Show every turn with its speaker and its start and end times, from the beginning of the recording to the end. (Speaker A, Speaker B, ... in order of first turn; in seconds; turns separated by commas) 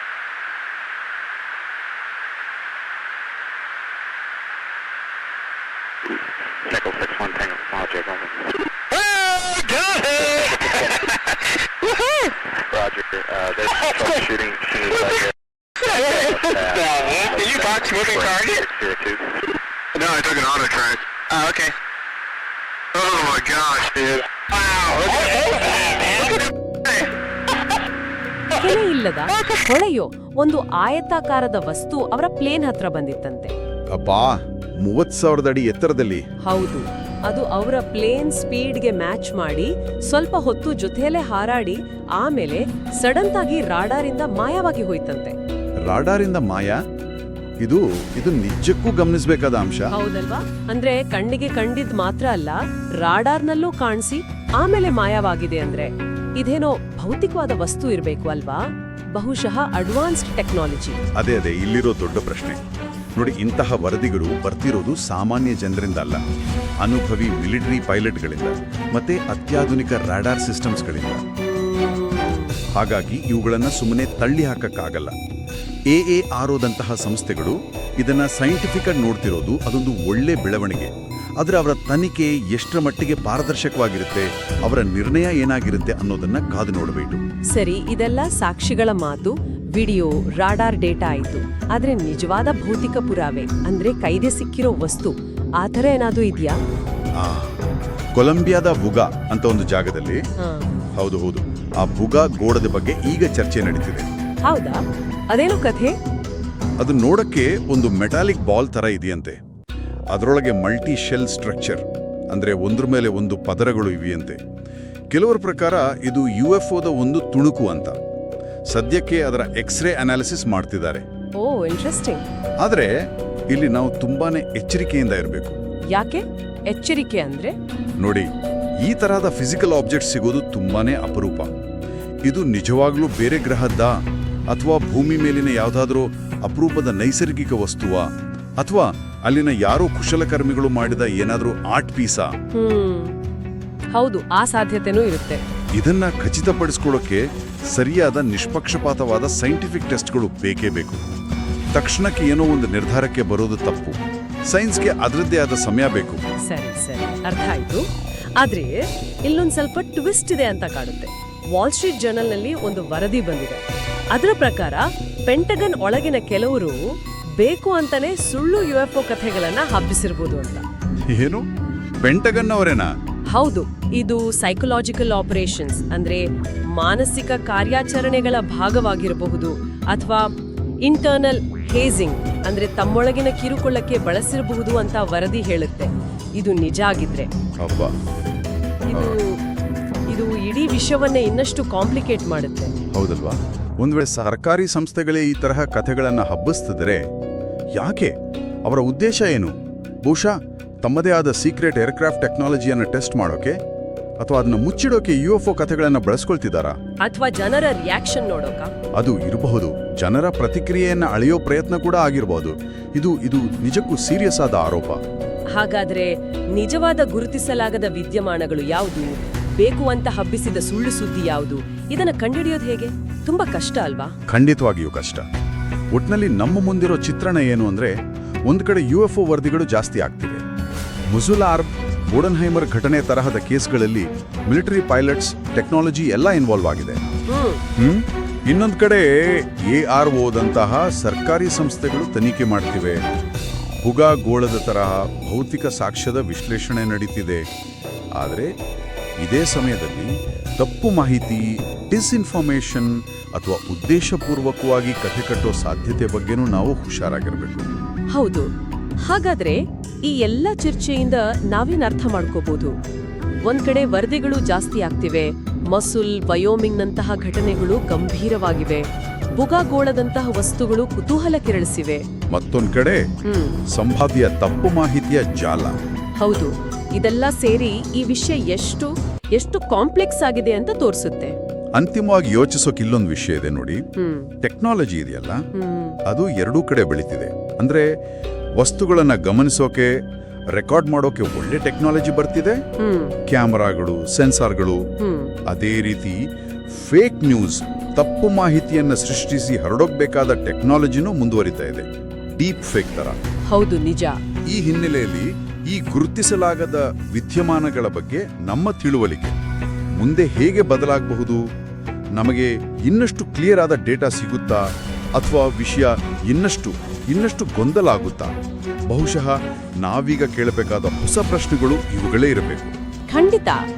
Speaker A: 6.7-8.5, Speaker B: 9.6-9.9, Speaker A: 10.0-11.3, Speaker A: 12.6-19.3, Speaker B: 15.9-18.6, Speaker B: 19.9-21.7, Speaker B: 22.9-26.4, Speaker A: 25.0-26.1, Speaker C: 28.6-33.5, Speaker D: 33.9-36.2, Speaker C: 36.5-45.4, Speaker D: 45.9-46.8, Speaker D: 47.6-49.9, Speaker C: 49.9-61.0, Speaker D: 61.2-62.6, Speaker D: 63.2-66.2, Speaker D: 66.8-71.2, Speaker C: 71.4-72.6, Speaker D: 72.7-75.2, Speaker D: 75.9-87.2, Speaker C: 87.5-96.6, Speaker D: 97.2-97.6, Speaker D: 98.1-100.2, Speaker C: 100.4-100.7, Speaker D: 101.0-104.1, Speaker C: 104.4-106.0, Speaker D: 106.8-109.4, Speaker D: 110.1-114.4, Speaker D: 115.1-118.0, Speaker D: 118.7-121.0, Speaker C: 121.4-122.2, Speaker D: 122.6-122.9, Speaker D: 123.5-125.6, Speaker C: 125.9-127.5, Speaker D: 128.0-128.3, Speaker D: 128.8-131.5, Speaker D: 132.2-133.9, Speaker D: 134.5-138.1, Speaker D: 138.6-142.3, Speaker C: 142.5-143.2, Speaker C: 143.9-145.4, Speaker D: 145.8-151.0, Speaker D: 151.7-154.0, Speaker D: 154.5-156.2, Speaker C: 156.4-157.8, Speaker C: 158.4-166.8, Speaker C: 167.4-170.7, Speaker D: 171.1-171.4, Speaker D: 172.0-172.9, Speaker C: 173.3-180.3, Speaker C: 180.8-187.3, Speaker D: 187.6-187.9, Speaker C: 188.9-189.4, Speaker C: 190.1-192.7, Speaker D: 192.9-197.0, Speaker D: 197.8-198.1, Speaker D: 198.7-203.6, Speaker D: 204.2-206.8, Speaker C: 207.0-208.7, Speaker D: 209.0-215.0, Speaker C: 215.5-224.1, Speaker D: 224.3-225.2, Speaker D: 225.9-227.9, Speaker D: 228.5-230.4, Speaker D: 231.1-237.0, Speaker C: 237.3-237.6, Speaker D: 237.8-243.0, Speaker D: 243.8-247.4, Speaker D: 248.2-248.5, Speaker D: 249.2-257.7, Speaker C: 258.1-258.5, Speaker C: 259.0-262.7, Speaker C: 263.4-268.8, Speaker C: 269.4-272.0, Speaker D: 272.3-273.1, Speaker C: 273.2-273.6, Speaker D: 273.7-275.8, Speaker C: 276.2-281.4, Speaker D: 281.7-283.8, Speaker C: 284.0-284.3, Speaker D: 284.4-285.4, Speaker C: 285.5-286.0, Speaker D: 286.1-287.9, Speaker D: 288.6-290.0, Speaker D: 290.5-292.6, Speaker C: 292.8-293.2, Speaker D: 293.3-294.8, Speaker C: 295.0-295.3, Speaker D: 295.5-303.2, Speaker C: 303.5-304.2, Speaker D: 304.5-309.4, Speaker D: 310.0-311.4, Speaker D: 312.1-314.6, Speaker D: 315.1-318.3, Speaker D: 318.9-322.7, Speaker C: 323.1-323.6